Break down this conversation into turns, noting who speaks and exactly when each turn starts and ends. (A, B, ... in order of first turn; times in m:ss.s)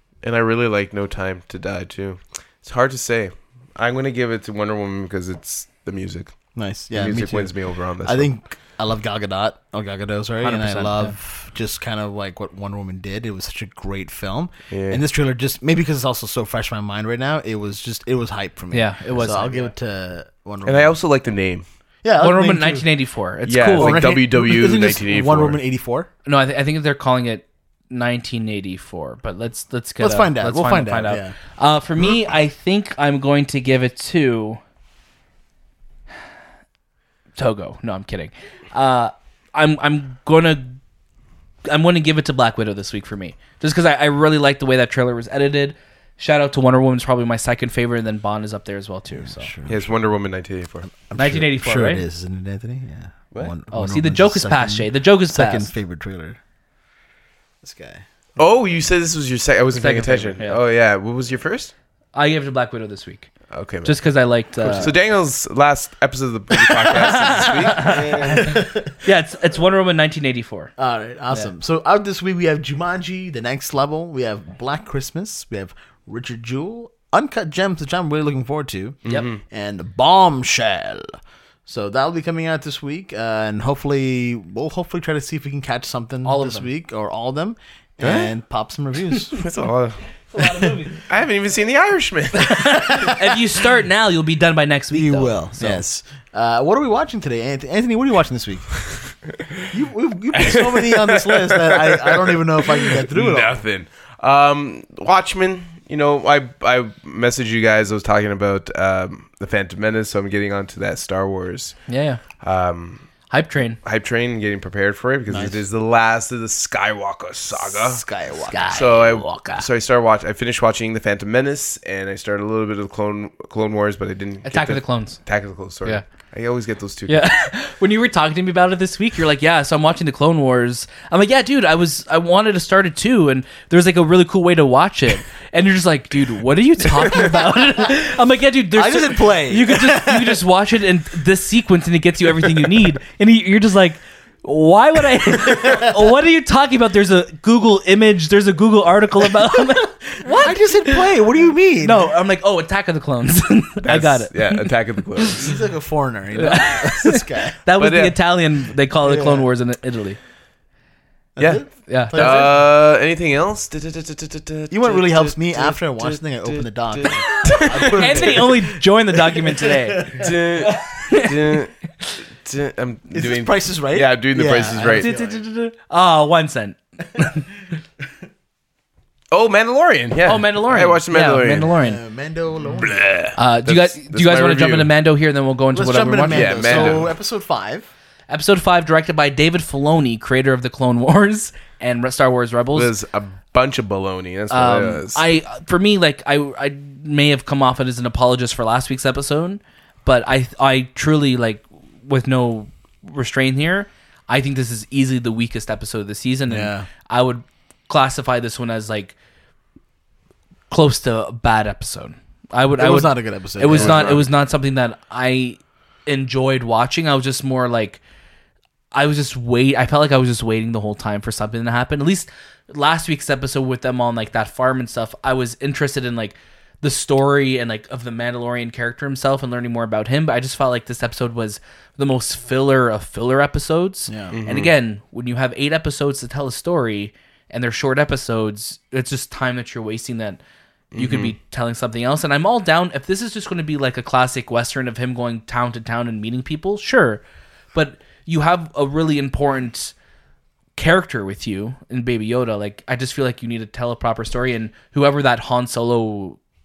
0:00.2-0:06.4 A
0:06.5-0:21.0 B
0:06.9-0:08.3 A
0:10.4-0:11.1 C
0:14.7-0:15.0 A
0:18.7-0:19.7 C
0:20.6-0:21.6 A
0:22.0-0:22.8 B
0:22.2-0:24.0 C
0:23.5-0:25.6 A
0:23.8-0:26.1 B
0:26.2-0:34.6 C
0:30.0-0:31.3 B
0:37.4-0:40.8 C
0:41.7-0:49.5 C
0:49.2-0:49.9 B
0:49.6-0:50.9 A
0:50.9-0:56.4 B
0:51.2-0:52.0 C
0:53.7-0:55.7 C
0:57.6-0:58.0 B
0:58.4-1:01.7 A
0:59.7-1:00.6 C
1:02.1-1:03.3 C
1:03.5-1:04.0 A
1:03.8-1:04.9 C
1:04.6-1:04.9 B
1:04.7-1:08.4 A
1:06.8-1:10.7 C
1:07.6-1:08.9 B
1:10.8-1:21.1 B
1:19.0-1:19.4 A
1:21.6-1:29.4 B
1:26.2-1:26.7 C
1:28.0-1:28.3 A
1:29.3-1:30.0 A
1:30.3-1:31.0 C
1:30.4-1:30.7 B
1:31.0-1:33.1 A
1:32.3-1:35.8 C
1:34.9-1:38.7 B
1:39.7-1:43.6 B
1:40.3-1:51.8 A
1:51.9-1:52.2 C
1:52.4-1:53.0 A
1:53.3-1:53.8 C
1:53.8-1:58.0 A
1:55.3-1:55.6 B
1:57.5-1:58.6 B
1:58.5-1:59.6 C
1:58.7-2:07.3 A
2:04.4-2:05.2 C
2:07.1-2:31.1 C
2:18.7-2:20.4 B
2:30.2-2:32.1 B
2:31.8-2:35.3 C
2:33.8-2:35.6 A
2:35.4-2:37.6 B
2:36.4-2:40.2 C
2:37.8-2:38.2 A
2:39.0-2:39.5 B
2:41.4-2:42.6 B
2:41.4-2:48.5 A
2:41.9-2:42.5 C
2:44.7-2:50.3 B
2:47.3-2:52.1 C
2:50.2-2:51.7 A
2:52.2-2:55.1 A
2:53.1-2:55.4 B
2:54.9-2:57.5 C
2:59.3-3:01.7 A
3:00.2-3:02.0 C
3:01.8-3:03.1 B
3:02.8-3:04.9 A
3:03.3-3:07.0 C
3:05.7-3:07.9 B
3:06.3-3:07.1 A
3:08.3-3:12.9 C
3:12.7-3:15.2 A
3:14.5-3:29.1 C
3:26.5-3:26.9 B
3:30.7-3:38.0 C
3:32.8-3:34.2 B
3:33.7-3:34.2 A
3:38.9-4:00.4 C
3:54.1-3:54.4 B
3:54.3-3:54.7 A
4:00.9-4:01.3 A
4:01.0-4:07.2 C
4:07.7-4:09.9 C
4:10.8-4:16.4 C